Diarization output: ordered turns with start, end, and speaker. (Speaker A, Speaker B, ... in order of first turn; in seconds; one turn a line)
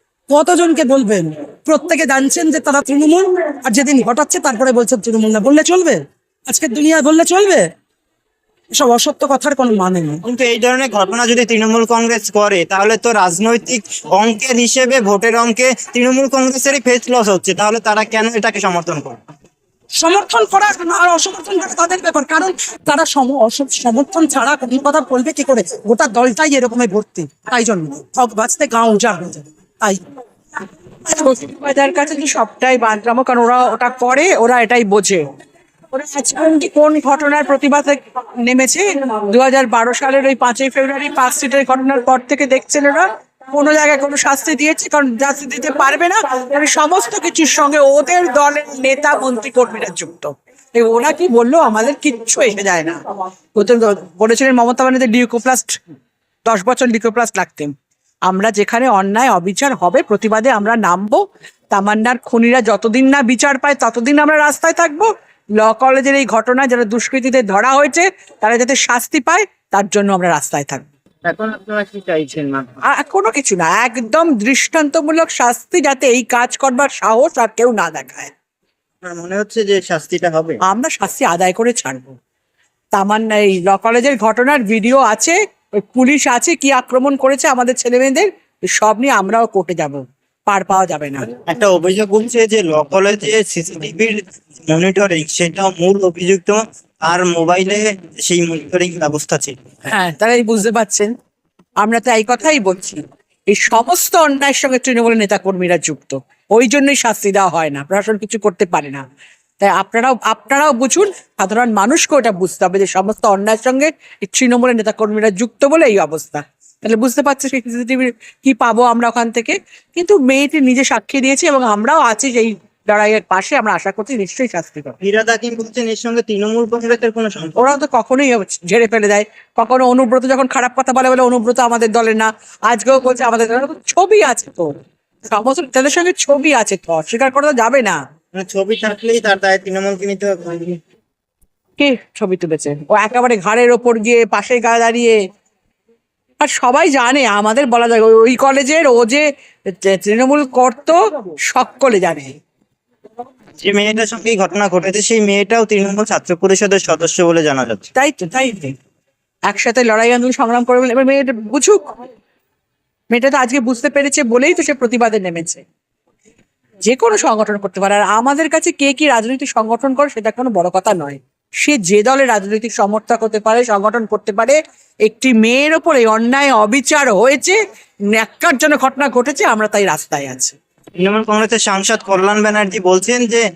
Speaker A: 0.3-7.6
Speaker A: 8.8-10.2
Speaker B: 10.2-19.2
Speaker A: 19.9-30.0
Speaker C: 31.1-35.2
Speaker C: 35.9-53.0
Speaker C: 53.5-55.8
Speaker C: 56.4-57.7
Speaker C: 58.3-70.8
Speaker B: 71.2-72.8
Speaker C: 72.8-78.3
Speaker B: 79.0-80.6
Speaker C: 80.7-82.1
Speaker C: 82.9-91.3
Speaker B: 91.5-99.5
Speaker C: 99.9-101.1
Speaker C: 101.8-109.0
Speaker C: 109.6-124.9
Speaker B: 125.0-127.6
Speaker C: 127.5-134.7
Speaker C: 135.3-138.0
Speaker B: 138.3-140.8
Speaker C: 141.8-145.2
Speaker C: 146.4-152.3
Speaker B: 153.6-157.8
Speaker C: 157.9-158.7
Speaker C: 159.5-161.9
Speaker C: 163.1-165.6
Speaker C: 166.8-177.6
Speaker C: 178.1-180.5
Speaker B: 181.0-183.4